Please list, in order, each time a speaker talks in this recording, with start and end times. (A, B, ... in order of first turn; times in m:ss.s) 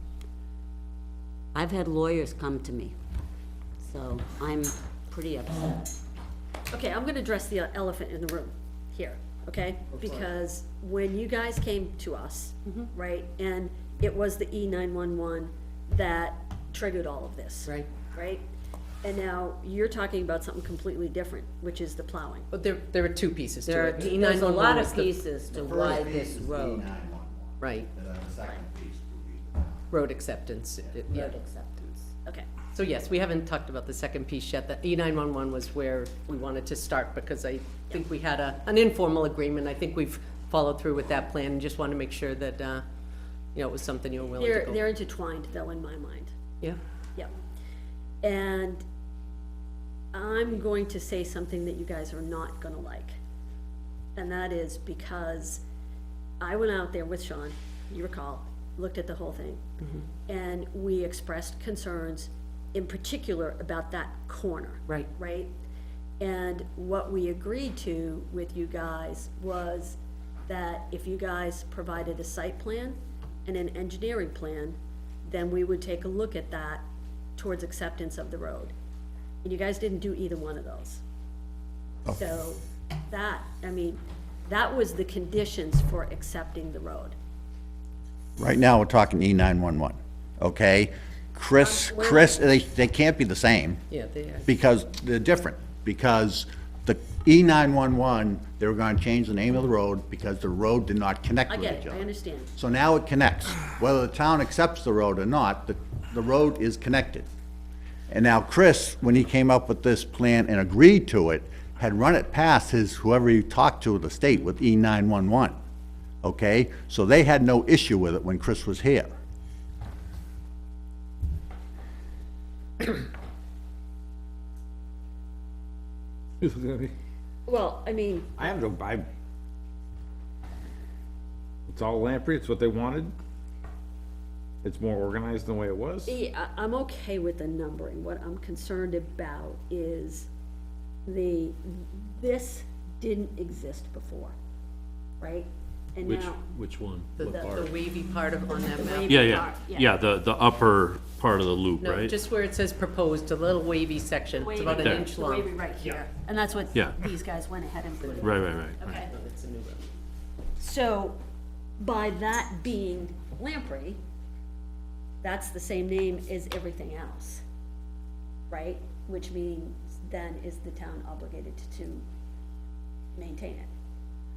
0:01.5-0:02.9 A
0:03.8-0:05.9 A
0:06.7-0:18.4 B
0:19.0-0:22.5 B
0:22.5-0:25.1 C
0:23.6-0:26.9 A
0:25.5-0:29.9 D
0:27.6-0:27.9 C
0:29.9-0:31.3 C
0:31.1-0:32.1 A
0:32.7-0:42.8 C
0:43.5-0:44.8 C
0:44.4-0:46.3 B
0:48.2-0:48.8 B
0:50.1-0:53.2 B
0:54.2-0:55.6 B
0:56.4-0:59.6 B
1:00.3-1:05.5 B
1:06.2-1:16.8 B
1:17.4-1:18.7 B
1:19.4-1:21.0 B
1:22.0-1:27.2 B
1:28.4-1:33.8 D
1:31.6-1:32.4 B
1:33.9-1:34.5 C
1:34.4-1:47.3 D
1:41.5-1:42.5 B
1:48.1-1:55.6 D
1:56.2-1:59.1 D
2:06.4-2:06.9 E
2:07.4-2:08.3 B
2:08.4-2:09.1 E
2:11.7-2:13.1 E
2:14.6-2:16.2 E
2:16.0-2:20.3 B
2:21.0-2:24.3 B
2:25.2-2:26.4 B
2:26.0-2:27.7 F
2:27.2-2:29.5 C
2:27.2-2:27.7 B
2:28.5-2:30.0 B
2:29.1-2:32.2 F
2:31.8-2:36.0 C
2:34.3-2:39.1 B
2:38.0-2:39.9 C
2:38.2-2:39.0 F
2:40.6-2:41.2 B
2:41.8-2:44.0 B
2:45.2-2:47.4 B
2:48.5-2:52.0 B
2:53.1-2:53.7 B